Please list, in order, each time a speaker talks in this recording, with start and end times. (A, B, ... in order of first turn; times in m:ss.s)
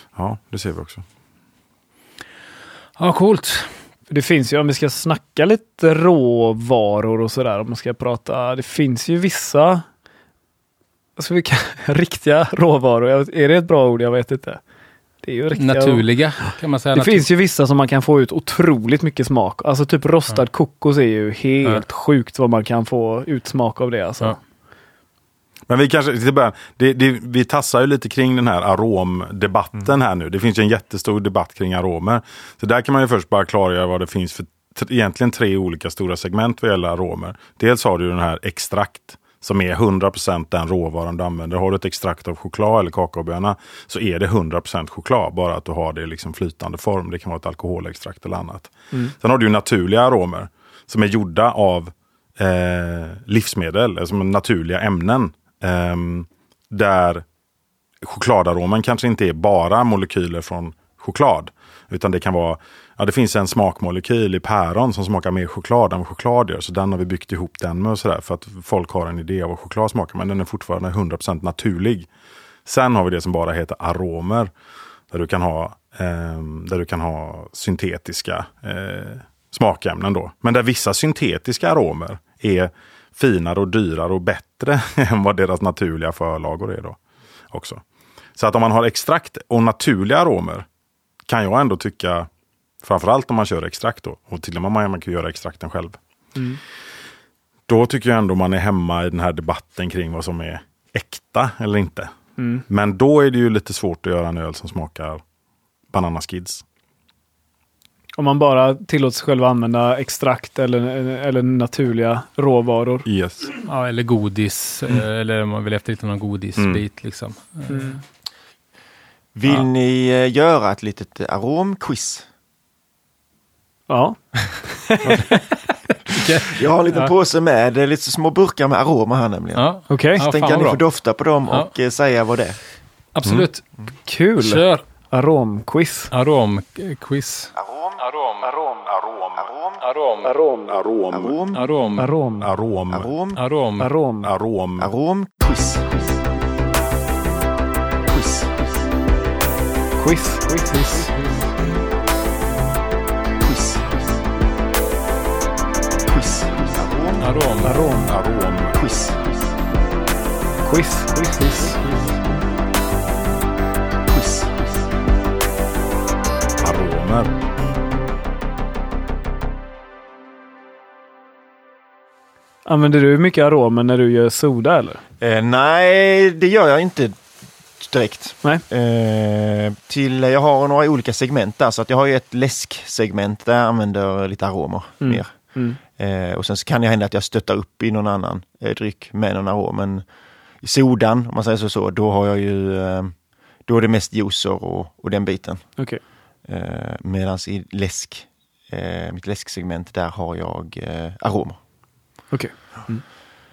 0:00.2-0:01.0 A
0:03.0-0:03.8 B
0:04.1-0:09.8 C
0:11.2-0:14.6 C
0:15.2-0:16.0 C
0:15.6-0:17.2 B
0:16.9-0:24.4 C
0:25.7-0:57.2 A
0:58.0-1:12.1 A
1:12.6-1:14.5 A
1:15.1-1:27.0 A
1:27.5-1:27.8 A
1:28.4-1:30.6 A
1:31.3-1:32.3 A
1:32.8-1:36.0 A
1:37.7-1:42.1 A
1:42.4-1:42.6 C
1:42.7-1:45.2 A
1:45.9-1:46.6 A
1:48.2-1:53.0 C
1:53.0-1:53.5 A
1:53.6-1:58.0 B
1:56.6-1:56.8 A
1:57.7-1:58.0 C
1:59.3-2:02.3 D
2:03.9-2:05.4 C
2:06.1-2:07.1 B
2:06.5-2:09.6 D
2:09.5-2:10.8 B
2:09.9-2:10.2 C
2:10.2-2:12.6 D
2:13.1-2:13.6 B
2:14.0-2:16.1 C
2:14.4-2:14.8 B
2:16.1-2:18.5 B
2:17.6-2:18.0 D
2:18.8-2:19.5 A
2:19.8-2:20.3 B
2:20.2-2:20.7 C
2:20.7-2:21.4 A
2:21.1-2:21.6 D
2:21.5-2:22.1 B
2:22.0-2:22.5 C
2:22.4-2:23.1 A
2:22.9-2:23.4 D
2:23.4-2:23.9 B
2:23.8-2:24.3 C
2:24.2-2:24.9 A
2:24.8-2:26.2 D
2:28.1-2:28.5 D
2:30.0-2:31.1 C
2:33.4-2:34.0 D
2:36.0-2:37.2 D
2:37.2-2:37.9 B
2:37.6-2:38.1 C
2:38.0-2:38.8 A
2:38.7-2:39.3 D
2:40.6-2:41.8 C
2:44.1-2:44.8 D
2:46.6-2:47.3 A
2:52.6-2:55.0 C
2:55.2-2:57.2 D
2:57.8-3:05.3 D
3:05.0-3:05.8 C
3:05.8-3:10.0 D
3:10.6-3:13.1 D
3:13.6-3:15.7 D
3:16.5-3:21.6 D
3:22.3-3:23.0 C